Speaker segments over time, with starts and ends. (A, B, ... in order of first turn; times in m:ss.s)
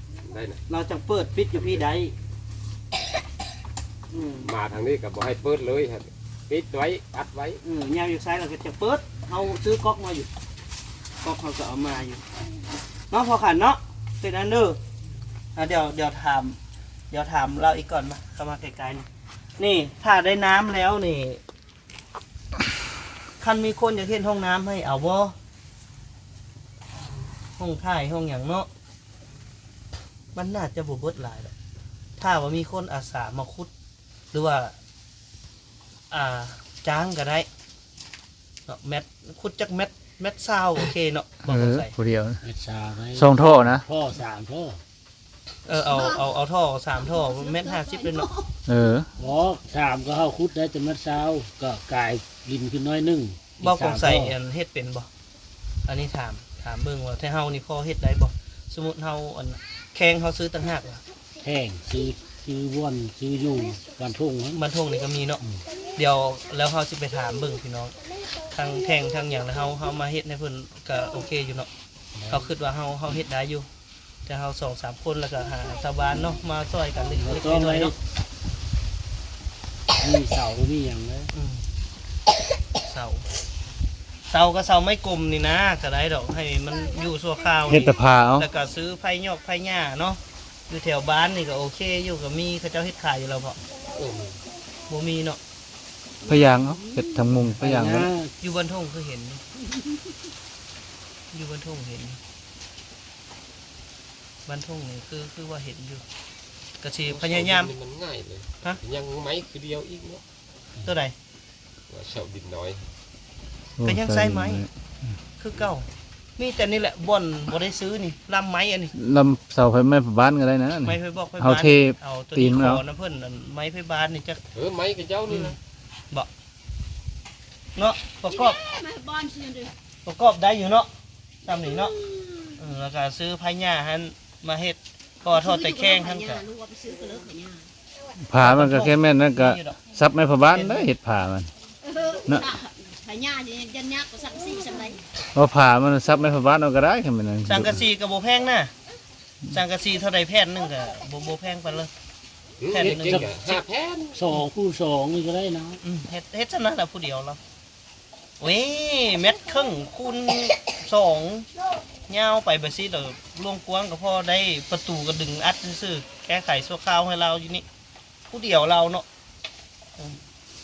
0:00.2-0:00.6 A
0:00.7-0:02.1 B
0:04.1-0:04.5 B
0:04.4-0:07.6 A
0:07.6-0:10.3 B
0:11.2-0:12.2 B
0:13.1-0:14.8 B
0:15.6-0:16.6 B
0:17.1-0:19.1 B
0:19.6-0:21.4 B
0:23.4-0:25.4 B
0:27.6-0:28.7 B
0:30.4-0:31.5 B
0:32.2-0:33.7 B
0:34.3-0:34.8 B
0:36.1-0:37.5 B
0:38.7-0:41.9 B
0:41.5-0:42.4 C
0:42.4-0:44.8 D
0:43.2-0:43.8 C
0:45.7-0:48.3 B
0:47.2-0:48.5 E
0:48.7-0:49.1 C
0:49.2-0:54.3 D
0:53.6-0:55.1 B
0:55.9-1:01.0 B
1:01.4-1:04.6 D
1:04.6-1:05.4 B
1:05.9-1:07.9 B
1:08.5-1:11.7 B
1:12.2-1:12.4 D
1:12.3-1:13.7 B
1:14.3-1:18.0 B
1:17.2-1:18.0 D
1:20.0-1:21.3 D
1:21.3-1:21.6 B
1:22.8-1:23.2 B
1:24.3-1:33.6 B
1:27.6-1:28.5 C
1:33.9-1:34.4 A
1:34.9-1:35.4 B
1:36.2-1:38.1 C
1:37.6-1:38.3 D
1:38.4-1:39.4 B
1:41.3-1:42.2 B
1:44.5-1:46.0 B
1:46.8-1:47.7 B
1:47.1-1:50.2 A
1:50.8-1:51.2 B
1:51.9-1:52.9 A
1:53.8-1:54.7 C
1:53.8-1:54.6 B
1:55.4-1:55.9 B
1:56.4-1:58.9 B
1:59.0-2:02.8 C
2:00.8-2:04.4 B
2:04.5-2:05.6 A
2:05.3-2:05.6 B
2:07.8-2:08.6 B
2:08.3-2:09.7 E
2:10.0-2:10.9 B
2:11.4-2:12.0 B
2:11.6-2:12.6 E
2:12.6-2:16.4 B
2:15.2-2:17.7 E
2:18.2-2:21.5 C
2:18.4-2:19.8 B
2:20.4-2:20.9 B
2:21.8-2:25.0 E
2:22.3-2:22.5 C
2:25.3-2:27.8 C
2:27.5-2:28.7 B
2:29.5-2:31.9 B
2:32.6-2:34.2 A
2:32.7-2:33.6 B
2:32.8-2:33.3 D
2:34.2-2:35.8 D
2:35.8-2:37.4 B
2:38.4-2:41.5 B
2:42.1-2:47.6 B
2:48.3-2:49.1 B